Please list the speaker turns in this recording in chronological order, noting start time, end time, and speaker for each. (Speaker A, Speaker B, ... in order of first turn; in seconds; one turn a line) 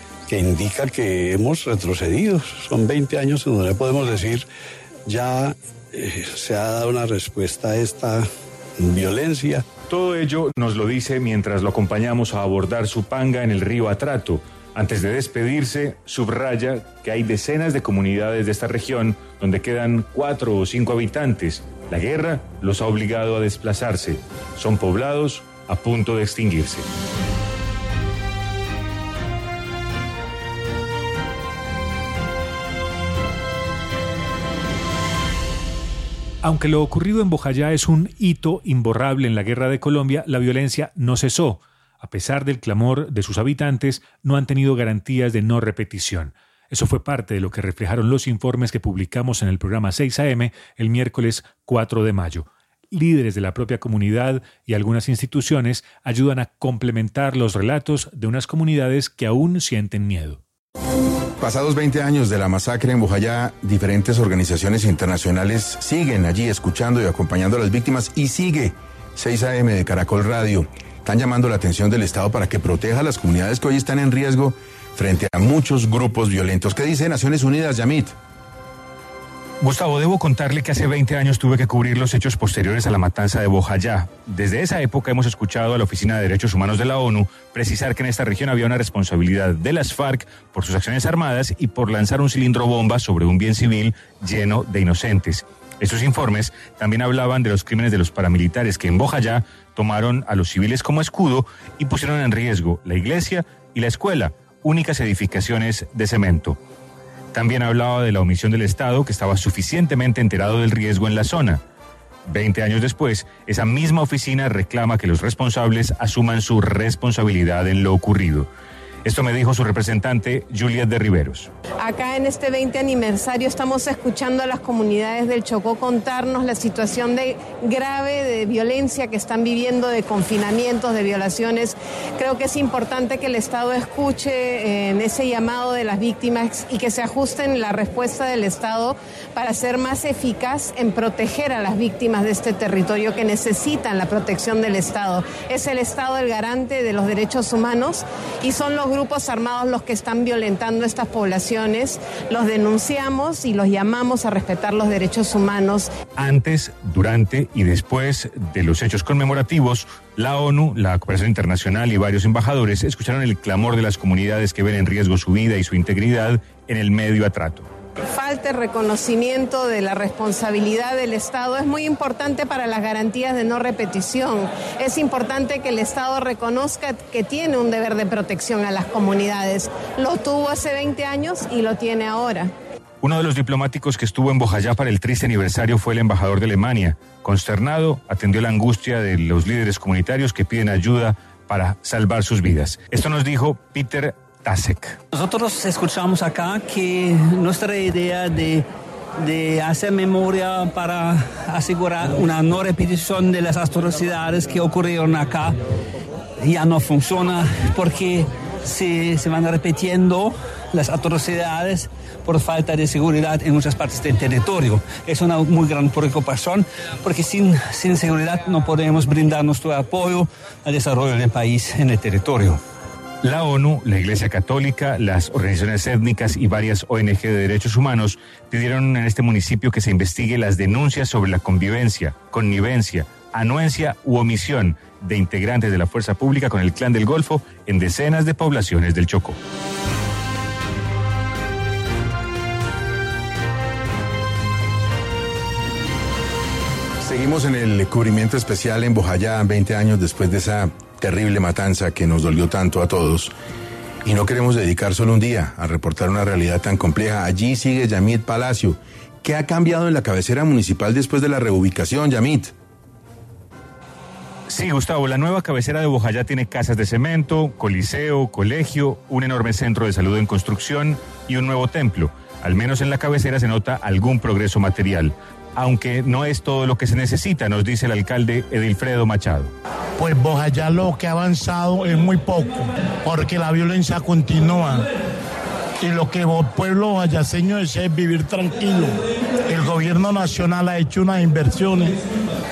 Speaker A: 0.3-4.5
Speaker A: 5.1-8.3
Speaker A: 8.8-9.6
Speaker B: 9.9-26.9
Speaker B: 36.4-60.4
Speaker C: 61.4-78.1
Speaker B: 79.6-106.6
Speaker B: 107.3-111.6
Speaker B: 112.3-118.5
Speaker B: 119.0-121.5
Speaker D: 121.8-155.9
Speaker B: 156.2-167.7
Speaker D: 168.1-182.5
Speaker B: 183.0-195.0
Speaker E: 195.1-198.6
Speaker E: 199.2-205.6
Speaker E: 206.4-222.6
Speaker B: 223.2-239.4
Speaker C: 247.0-253.3
Speaker C: 254.0-262.5
Speaker B: 264.5-279.5
Speaker F: 280.0-284.9
Speaker F: 285.8-289.0
Speaker F: 289.5-292.0